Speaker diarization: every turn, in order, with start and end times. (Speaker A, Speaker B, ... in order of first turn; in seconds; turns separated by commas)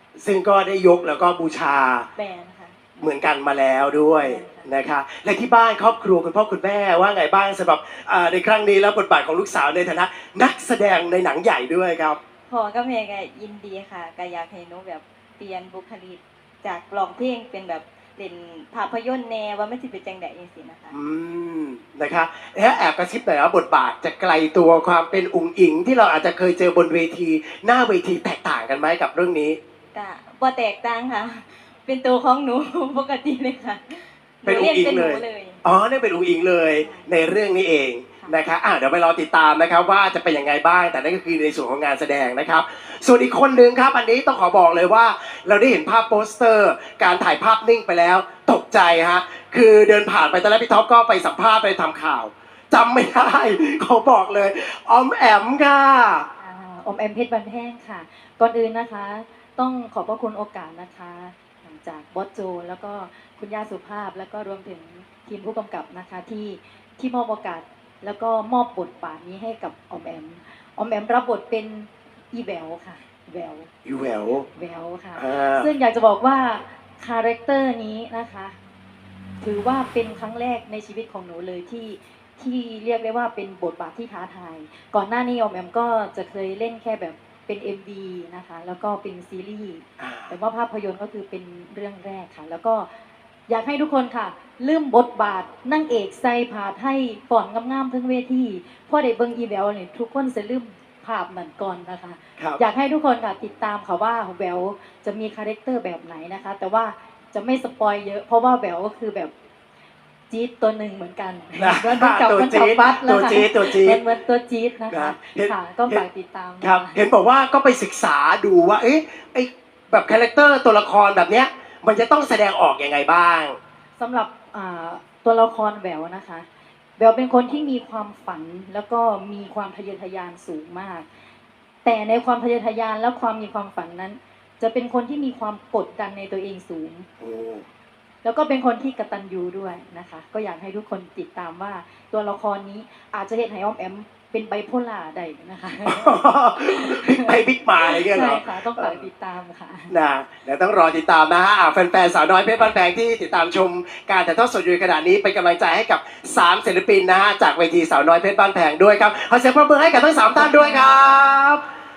Speaker A: 0.1-2.1, Speaker B: 2.2-2.8, Speaker A: 3.0-12.2, Speaker B: 4.2-4.7, Speaker B: 12.5-20.9, Speaker A: 20.9-29.6, Speaker B: 29.9-35.6, Speaker A: 34.5-56.3, Speaker B: 36.8-37.1, Speaker C: 56.4-73.7, Speaker A: 73.8-74.5, Speaker C: 74.6-78.6, Speaker A: 75.2-75.7, Speaker C: 79.4-92.9, Speaker A: 90.0-90.3, Speaker C: 93.5-109.3, Speaker C: 110.3-117.0, Speaker A: 111.6-114.0, Speaker A: 114.9-116.0, Speaker A: 116.6-123.6, Speaker C: 124.0-126.5, Speaker C: 127.0-131.1, Speaker C: 131.8-137.1, Speaker A: 137.2-137.7, Speaker C: 138.2-149.9, Speaker A: 145.8-149.0, Speaker A: 149.9-161.6